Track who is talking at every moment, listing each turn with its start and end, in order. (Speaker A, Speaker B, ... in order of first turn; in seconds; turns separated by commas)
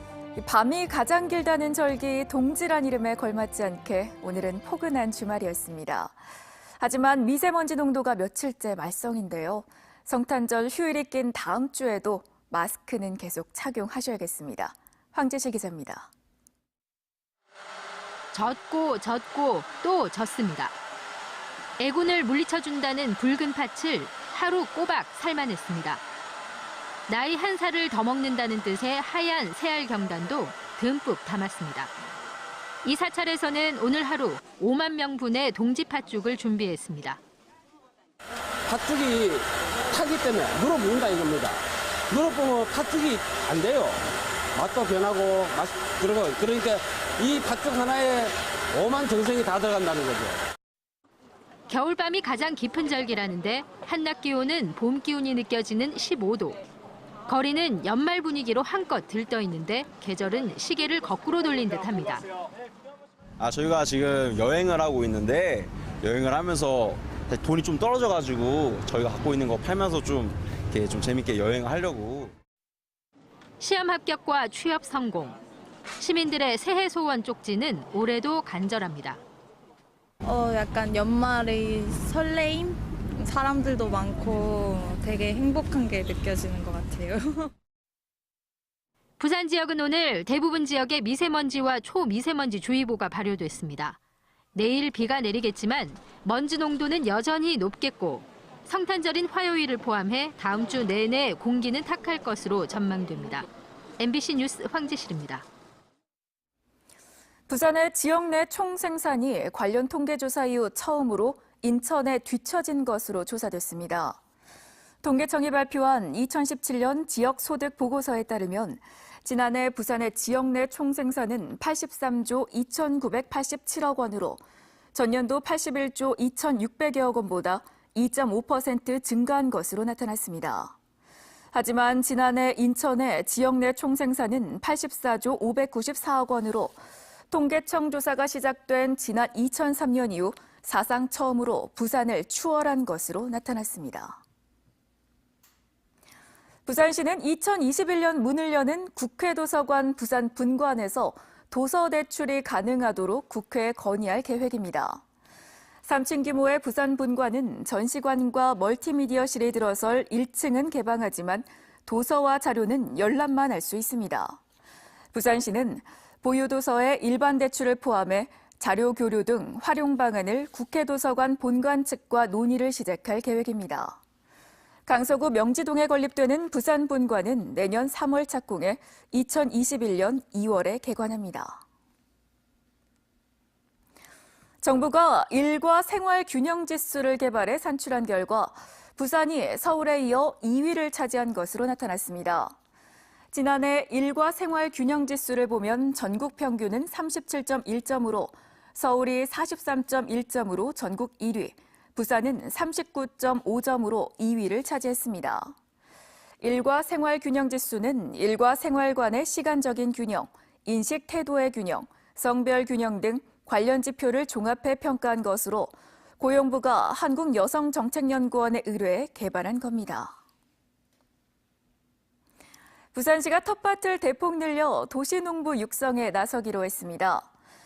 Speaker A: 0.3-6.1, Speaker A: 6.8-16.1, Speaker B: 18.3-20.7, Speaker B: 21.8-26.0, Speaker B: 27.1-31.9, Speaker B: 32.8-37.2, Speaker C: 38.7-44.0, Speaker C: 44.5-50.4, Speaker B: 51.7-56.6, Speaker B: 57.3-62.2, Speaker D: 63.4-72.3, Speaker B: 73.6-75.4, Speaker B: 76.0-79.2, Speaker E: 80.2-87.5, Speaker B: 89.2-94.0, Speaker B: 94.5-103.5, Speaker B: 104.0-105.4, Speaker A: 107.5-114.2, Speaker A: 115.0-124.4, Speaker A: 124.9-130.7, Speaker A: 131.5-136.8, Speaker A: 137.3-144.2, Speaker A: 146.7-155.0, Speaker A: 155.8-164.4, Speaker A: 165.1-174.0, Speaker A: 174.8-181.6, Speaker A: 184.6-192.5, Speaker A: 193.3-205.5, Speaker A: 206.4-220.1, Speaker A: 222.9-227.3